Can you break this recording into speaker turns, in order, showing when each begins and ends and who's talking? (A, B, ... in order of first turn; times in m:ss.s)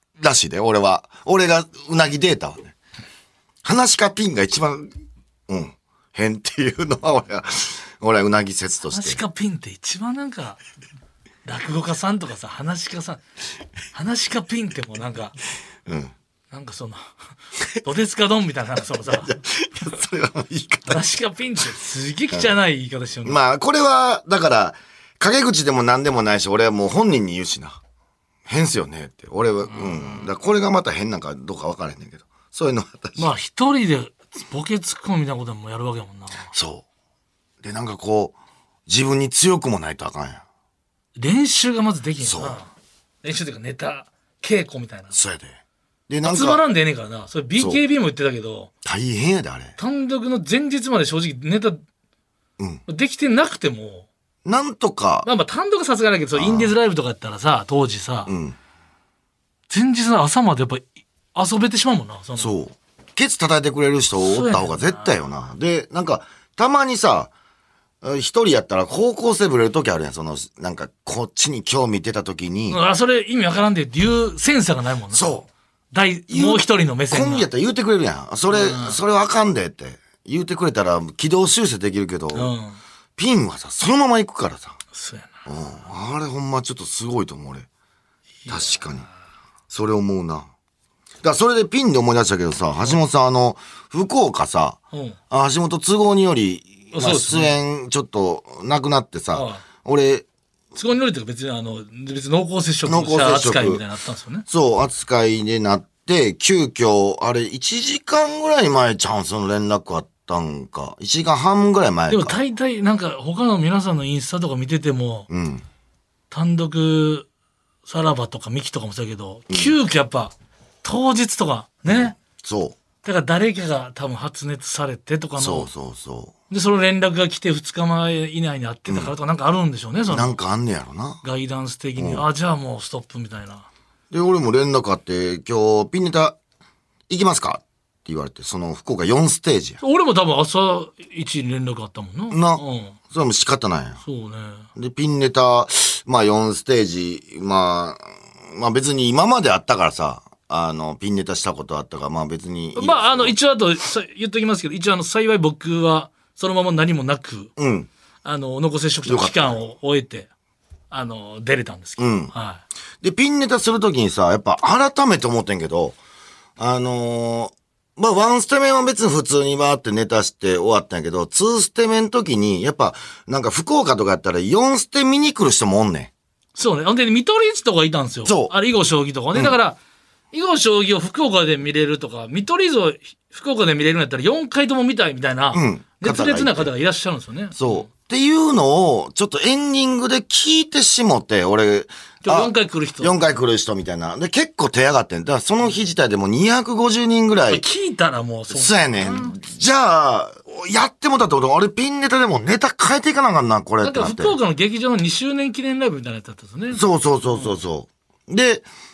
0:00.2-0:02.7 A
0:03.6-0:04.9 A
0:05.5-0:09.2 A
0:08.9-0:10.6 B
0:11.4-0:13.2 B
0:13.9-0:15.4 B
0:15.8-0:16.1 A
0:16.5-0:17.1 B
0:17.8-0:19.3 B
0:19.0-0:21.0 A
0:20.9-0:23.4 B
0:23.2-0:27.8 A
0:28.4-0:33.3 A
0:29.7-0:30.3 B
0:33.2-0:36.5 B
0:36.5-0:36.8 A
0:37.6-0:38.4 A
0:38.9-0:40.4 A
0:41.2-0:42.7 B
0:42.2-0:42.6 A
0:43.2-0:45.1 B
0:45.1-0:45.6 A
0:46.1-0:46.6 A
0:46.2-0:48.7 B
0:48.8-0:49.7 A
0:49.8-0:51.8 B
0:52.9-0:54.1 B
0:54.4-0:55.3 A
0:55.2-0:58.3 B
0:56.3-0:56.7 A
0:58.3-0:58.6 A
0:59.7-1:02.5 B
1:02.4-1:07.3 A
1:04.3-1:05.1 B
1:08.0-1:12.8 A
1:12.7-1:17.5 B
1:15.1-1:15.4 A
1:16.3-1:22.5 A
1:18.5-1:19.0 B
1:22.3-1:22.8 B
1:23.2-1:24.8 A
1:24.9-1:25.4 B
1:25.4-1:27.7 A
1:28.4-1:28.8 B
1:28.5-1:29.0 A
1:29.7-1:30.5 A
1:31.2-1:34.8 A
1:34.9-1:35.2 B
1:35.3-1:40.2 A
1:36.9-1:37.5 B
1:39.3-1:39.6 B
1:40.7-1:44.4 B
1:42.8-1:43.8 A
1:44.5-1:52.4 A
1:52.1-1:55.3 B
1:55.3-1:55.6 A
1:56.3-1:57.3 B
1:57.8-2:00.3 B
1:59.5-1:59.8 A
2:00.8-2:02.1 B
2:01.8-2:02.8 A
2:03.0-2:05.7 B
2:05.4-2:06.3 A
2:06.5-2:10.4 B
2:10.1-2:11.2 A
2:11.2-2:13.7 B
2:12.0-2:12.2 A
2:14.1-2:16.4 A
2:17.1-2:19.8 A
2:19.8-2:23.0 B
2:22.3-2:24.0 A
2:24.0-2:24.7 B
2:24.8-2:33.3 A
2:32.8-2:37.5 B
2:37.6-2:37.9 A
2:38.2-2:40.3 B
2:39.0-2:39.6 A
2:40.9-2:42.6 B
2:42.0-2:42.3 A
2:43.0-2:46.0 A
2:46.6-2:56.1 A
2:56.6-2:59.8 B
2:58.2-2:58.5 A
3:00.3-3:07.9 B
3:05.5-3:06.7 A
3:07.6-3:17.6 A
3:12.2-3:13.2 B
3:17.5-3:19.3 B
3:18.5-3:24.4 A
3:23.8-3:26.8 B
3:26.7-3:28.6 A